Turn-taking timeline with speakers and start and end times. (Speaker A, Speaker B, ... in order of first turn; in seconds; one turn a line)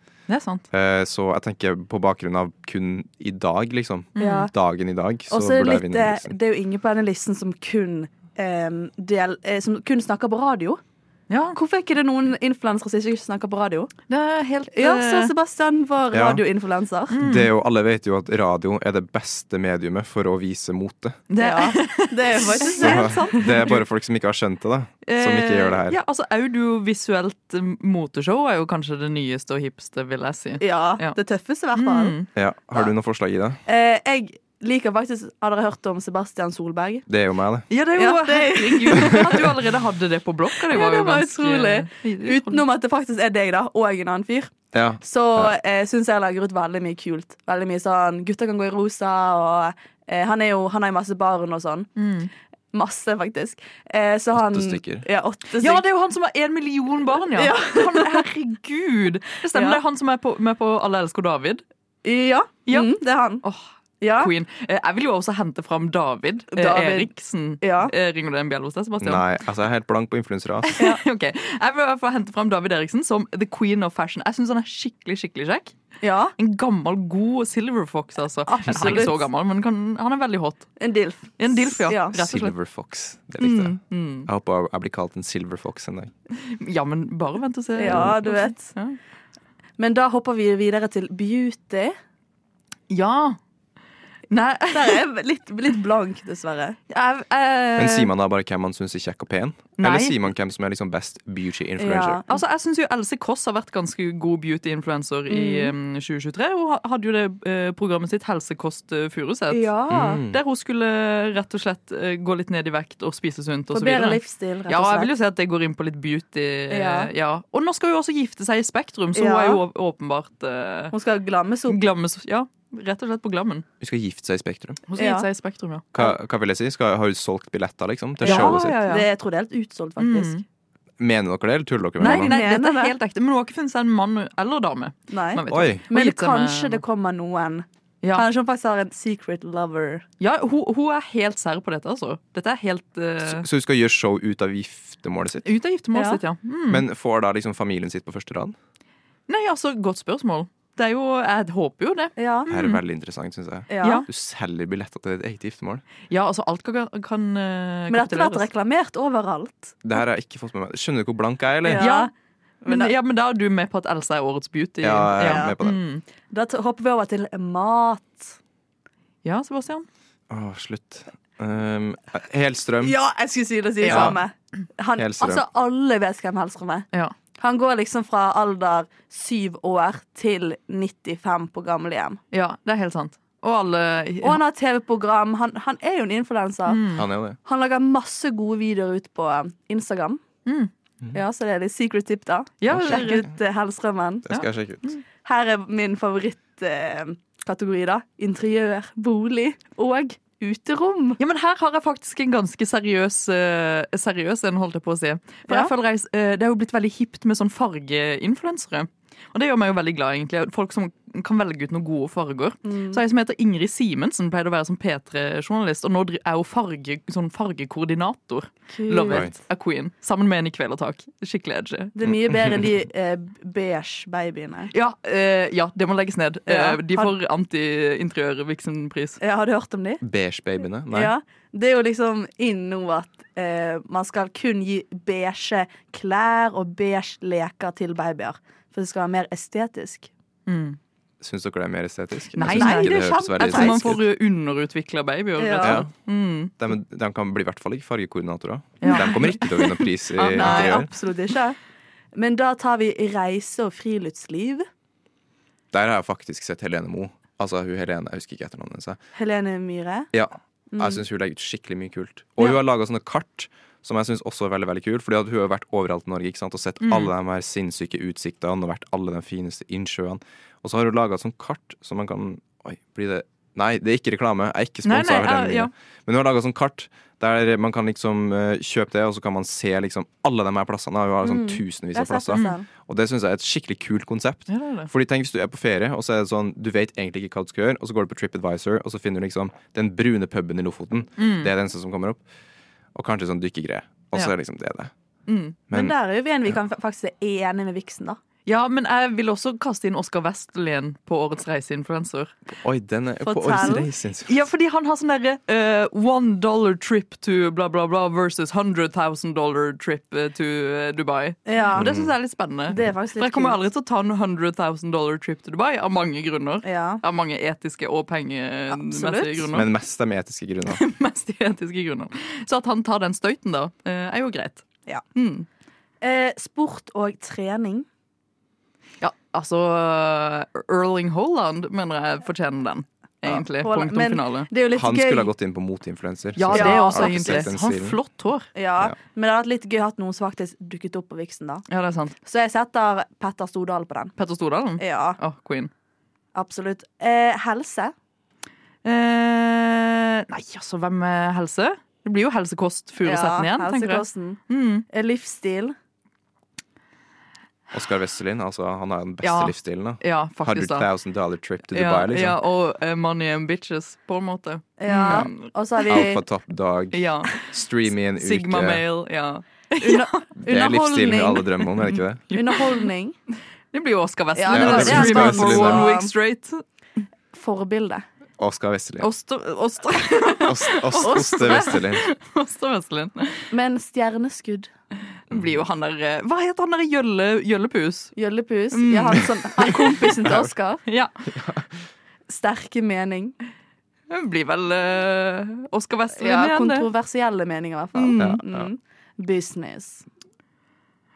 Speaker A: 0.3-0.7
Speaker B: 0.7-6.3
Speaker A: 4.2-4.5
Speaker C: 4.2-4.5
Speaker C: 5.3-10.8
Speaker A: 11.3-11.6
Speaker C: 11.5-13.9
Speaker A: 14.1-15.3
Speaker C: 14.7-17.1
Speaker B: 16.1-16.4
Speaker A: 17.1-17.5
Speaker B: 17.1-21.2
Speaker A: 21.3-23.8
Speaker C: 21.4-23.4
Speaker B: 22.8-26.0
Speaker A: 25.1-31.2
Speaker C: 30.6-32.1
Speaker A: 31.7-32.3
Speaker B: 32.3-33.6
Speaker C: 33.6-37.0
Speaker B: 37.1-37.7
Speaker A: 37.7-42.6
Speaker C: 38.0-39.4
Speaker C: 40.7-51.9
Speaker B: 44.7-45.5
Speaker A: 52.0-52.3
Speaker C: 52.7-55.8
Speaker B: 54.3-55.0
Speaker A: 55.6-61.6
Speaker C: 57.4-58.2
Speaker C: 59.5-59.8
Speaker C: 62.0-63.4
Speaker A: 62.7-69.2
Speaker C: 64.0-64.3
Speaker C: 66.5-67.9
Speaker B: 69.0-70.8
Speaker A: 70.7-75.7
Speaker C: 76.0-76.3
Speaker A: 76.4-80.7
Speaker C: 78.5-79.2
Speaker C: 80.8-82.1
Speaker A: 81.4-82.5
Speaker B: 82.1-86.1
Speaker A: 83.4-84.3
Speaker A: 86.4-89.0
Speaker C: 87.8-88.7
Speaker B: 87.9-88.1
Speaker C: 89.8-91.9
Speaker A: 92.9-93.4
Speaker A: 94.3-95.0
Speaker C: 94.7-96.8
Speaker A: 96.9-98.1
Speaker B: 97.8-102.2
Speaker A: 99.8-100.2
Speaker C: 101.8-102.4
Speaker A: 102.3-109.7
Speaker C: 105.3-105.7
Speaker C: 109.5-110.2
Speaker B: 109.9-110.4
Speaker A: 110.3-120.9
Speaker C: 113.7-115.1
Speaker C: 116.7-117.1
Speaker C: 119.1-119.6
Speaker C: 120.9-121.8
Speaker A: 121.7-123.7
Speaker B: 123.8-124.8
Speaker A: 124.9-125.8
Speaker C: 125.0-125.2
Speaker B: 125.9-128.8
Speaker A: 128.2-129.1
Speaker C: 128.2-130.4
Speaker A: 130.0-130.4
Speaker B: 131.0-132.3
Speaker A: 132.0-136.8
Speaker C: 132.0-132.9
Speaker C: 135.1-140.0
Speaker B: 135.5-135.8
Speaker A: 140.2-143.5
Speaker B: 143.2-145.5
Speaker A: 145.4-146.8
Speaker C: 145.9-146.2
Speaker B: 146.7-148.6
Speaker A: 149.3-152.8
Speaker C: 152.2-152.5
Speaker B: 152.5-155.8
Speaker C: 153.7-154.1
Speaker A: 156.1-158.5
Speaker C: 157.9-159.8
Speaker B: 159.8-161.9
Speaker C: 161.6-162.1
Speaker A: 161.7-162.1
Speaker C: 162.6-162.9
Speaker A: 162.7-166.0
Speaker B: 164.8-165.8
Speaker C: 165.2-165.5
Speaker C: 166.3-168.3
Speaker A: 169.2-169.8
Speaker B: 170.3-172.9
Speaker C: 172.8-182.2
Speaker A: 173.8-174.2
Speaker B: 173.9-174.2
Speaker B: 175.0-175.4
Speaker A: 182.3-184.4
Speaker C: 184.2-186.8
Speaker A: 186.7-187.1
Speaker B: 186.9-187.4
Speaker C: 187.4-190.2
Speaker A: 190.4-190.7
Speaker C: 191.1-194.3
Speaker A: 192.6-193.3
Speaker B: 192.7-193.3
Speaker B: 194.2-194.9
Speaker A: 194.3-195.0
Speaker C: 195.2-201.2
Speaker A: 201.2-221.9
Speaker C: 212.6-213.0
Speaker C: 218.7-219.3
Speaker C: 221.9-224.7
Speaker B: 222.1-222.6
Speaker A: 224.7-229.2
Speaker C: 226.5-227.1
Speaker C: 229.2-230.0
Speaker B: 230.0-231.1
Speaker C: 230.9-240.1
Speaker A: 240.5-240.8
Speaker B: 241.2-244.0
Speaker A: 242.3-246.5
Speaker C: 242.4-243.9
Speaker C: 245.4-245.8
Speaker B: 245.6-245.9
Speaker B: 246.6-250.9
Speaker A: 248.8-250.9
Speaker C: 248.8-249.1
Speaker C: 250.3-251.6
Speaker C: 252.1-254.7
Speaker B: 255.7-259.0
Speaker C: 259.1-260.1
Speaker B: 260.1-292.2
Speaker C: 260.7-261.0
Speaker A: 266.8-267.1
Speaker A: 274.8-275.7
Speaker C: 281.2-282.7
Speaker A: 284.5-284.9
Speaker A: 291.2-291.5
Speaker B: 292.9-294.9
Speaker A: 295.3-295.6
Speaker C: 295.7-298.2
Speaker A: 298.4-302.3
Speaker B: 302.6-304.4
Speaker C: 303.2-303.9
Speaker A: 304.3-319.7
Speaker C: 311.4-311.8
Speaker B: 311.8-312.1
Speaker C: 312.7-313.6
Speaker C: 316.6-317.0
Speaker C: 318.7-319.5
Speaker B: 319.5-320.8
Speaker A: 320.7-325.4
Speaker C: 326.0-327.9
Speaker A: 329.0-334.5
Speaker C: 333.6-335.3
Speaker B: 334.7-338.0
Speaker A: 336.4-338.5
Speaker C: 336.5-337.5
Speaker C: 338.5-341.6
Speaker A: 341.7-342.1
Speaker C: 342.2-344.1
Speaker A: 344.2-345.7
Speaker C: 344.8-345.2
Speaker C: 346.3-347.9
Speaker A: 348.8-354.9
Speaker C: 353.0-355.7
Speaker B: 357.7-362.4
Speaker A: 359.2-360.9
Speaker A: 361.7-366.1
Speaker C: 364.8-366.2
Speaker B: 365.9-368.8
Speaker A: 366.9-367.3
Speaker A: 368.1-370.2
Speaker C: 369.8-371.5
Speaker B: 370.4-372.2
Speaker A: 371.9-372.9
Speaker C: 372.3-373.1
Speaker A: 373.7-376.6
Speaker C: 374.4-376.1
Speaker B: 374.5-375.9
Speaker C: 377.3-378.0
Speaker B: 378.4-379.1
Speaker A: 379.0-383.5
Speaker B: 380.4-382.0
Speaker C: 383.5-384.7
Speaker A: 385.3-388.1
Speaker B: 385.3-385.6
Speaker C: 388.1-390.8
Speaker A: 388.7-390.3
Speaker B: 390.2-390.5
Speaker A: 390.9-391.1
Speaker B: 391.3-391.7
Speaker C: 392.3-393.3
Speaker A: 394.1-396.9
Speaker C: 396.2-400.0
Speaker A: 397.9-398.4
Speaker B: 398.2-398.7